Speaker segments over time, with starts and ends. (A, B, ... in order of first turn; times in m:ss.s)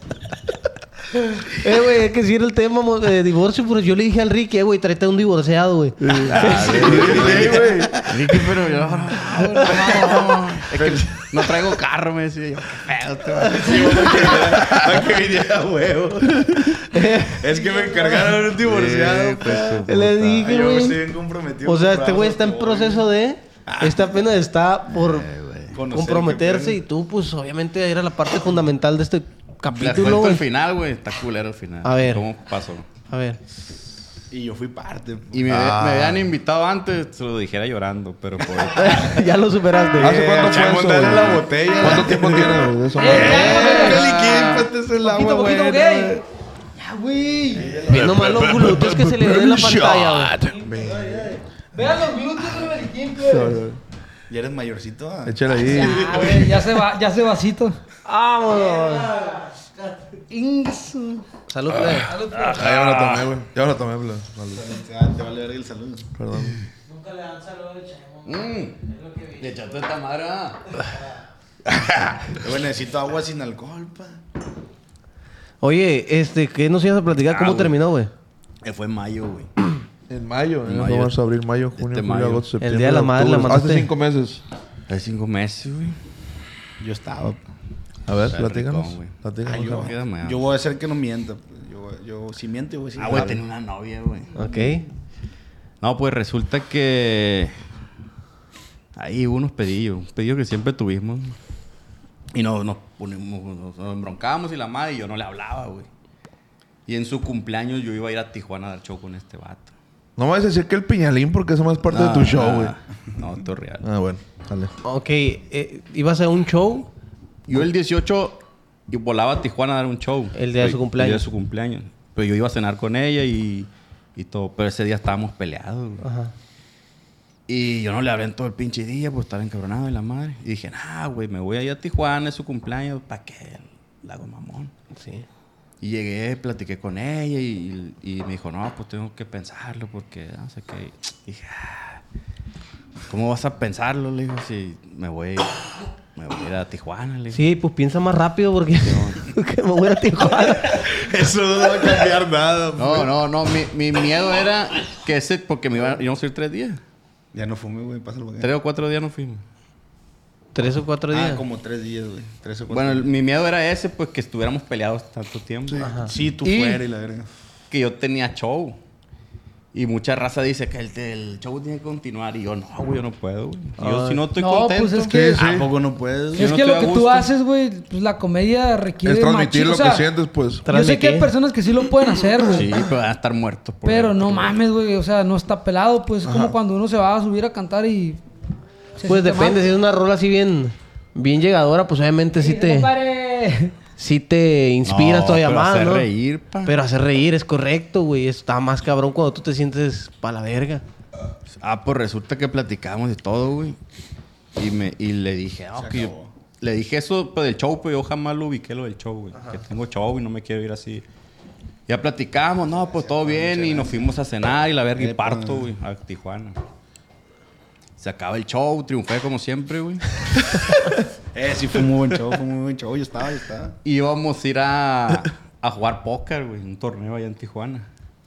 0:01.4-0:07.6 A
0:06.0-0:08.0 B
0:06.2-0:14.9 C
0:06.4-0:07.9 D
0:10.7-0:11.2 D
0:13.4-0:19.8 D
0:16.8-0:17.8 A
0:18.5-0:20.5 C
0:19.8-0:21.0 A
0:20.4-0:23.1 D
0:21.6-0:25.3 A
0:23.7-0:24.1 D
0:25.0-0:25.8 C
0:25.7-0:26.8 D
0:25.9-0:30.4 A
0:29.7-0:32.9 C
0:31.8-0:32.2 A
0:33.1-0:33.4 A
0:34.3-0:35.4 D
0:35.3-0:39.2 C
0:35.5-0:36.3 B
0:38.7-0:40.2 A
0:40.0-0:44.6 B
0:40.0-0:46.2 D
0:43.0-0:44.2 E
0:43.7-0:44.6 C
0:45.0-0:46.2 E
0:46.8-0:47.8 E
0:47.6-0:48.1 D
0:47.7-0:50.7 B
0:47.9-0:50.4 A
0:50.6-0:51.4 D
0:51.7-0:53.6 E
0:53.2-0:53.8 B
0:54.3-0:56.7 D
0:55.2-0:56.4 B
0:55.6-0:57.8 E
0:58.0-0:59.4 A
1:00.3-1:01.3 E
1:01.5-1:02.1 A
1:02.0-1:02.6 E
1:02.3-1:03.3 C
1:02.5-1:04.7 B
1:04.6-1:06.1 D
1:06.2-1:06.6 B
1:08.2-1:10.8 C
1:12.3-1:14.2 D
1:15.6-1:18.1 A
1:17.3-1:17.8 C
1:18.6-1:19.5 C
1:20.1-1:24.4 B
1:20.6-1:21.2 C
1:21.8-1:22.5 C
1:22.6-1:23.9 A
1:24.9-1:26.0 C
1:26.8-1:27.4 D
1:28.1-1:29.9 B
1:28.2-1:30.4 C
1:29.4-1:33.4 D
1:33.0-1:34.4 C
1:34.4-1:34.8 A
1:35.8-1:37.6 C
1:39.0-1:41.4 C
1:42.3-1:45.9 C
1:46.9-1:49.7 C
1:50.2-1:52.8 B
1:51.9-1:53.8 C
1:53.8-1:54.7 B
1:54.8-1:56.9 A
1:57.5-2:06.0 C
2:00.4-2:01.3 A
2:06.0-2:06.3 A
2:07.5-2:14.7 C
2:14.9-2:15.2 A
2:15.8-2:22.0 C
2:23.1-2:27.4 C
2:27.3-2:30.9 A
2:28.8-2:29.2 C
2:30.7-2:33.1 D
2:32.8-2:36.8 C
2:37.3-2:38.5 D
2:38.4-2:39.4 C
2:40.6-2:41.4 A
2:41.1-2:43.1 D
2:42.7-2:45.9 C
2:45.8-2:46.1 A
2:46.0-2:47.3 D
2:46.4-2:46.8 C
2:47.7-2:48.8 C
2:49.7-2:55.2 C
2:53.8-2:54.2 A
2:54.4-2:55.4 E
2:55.1-2:55.7 B
2:55.4-2:56.6 D
2:56.4-2:57.3 C
2:56.4-3:00.1 E
2:59.0-3:00.7 B
3:00.7-3:01.3 A
3:00.7-3:02.8 E
3:02.4-3:04.6 C
3:03.8-3:08.2 E
3:06.2-3:06.6 B
3:09.0-3:09.6 E
3:09.0-3:12.9 A
3:12.4-3:13.8 E
3:14.0-3:16.1 A
3:14.9-3:16.8 C
3:16.6-3:20.8 A
3:21.5-3:23.8 C
3:24.6-3:31.0 C
3:25.8-3:26.3 D
3:31.9-3:36.6 C
3:32.7-3:34.1 D
3:35.0-3:35.7 D
3:38.0-3:40.7 C
3:41.3-3:43.8 D
3:43.8-3:47.9 C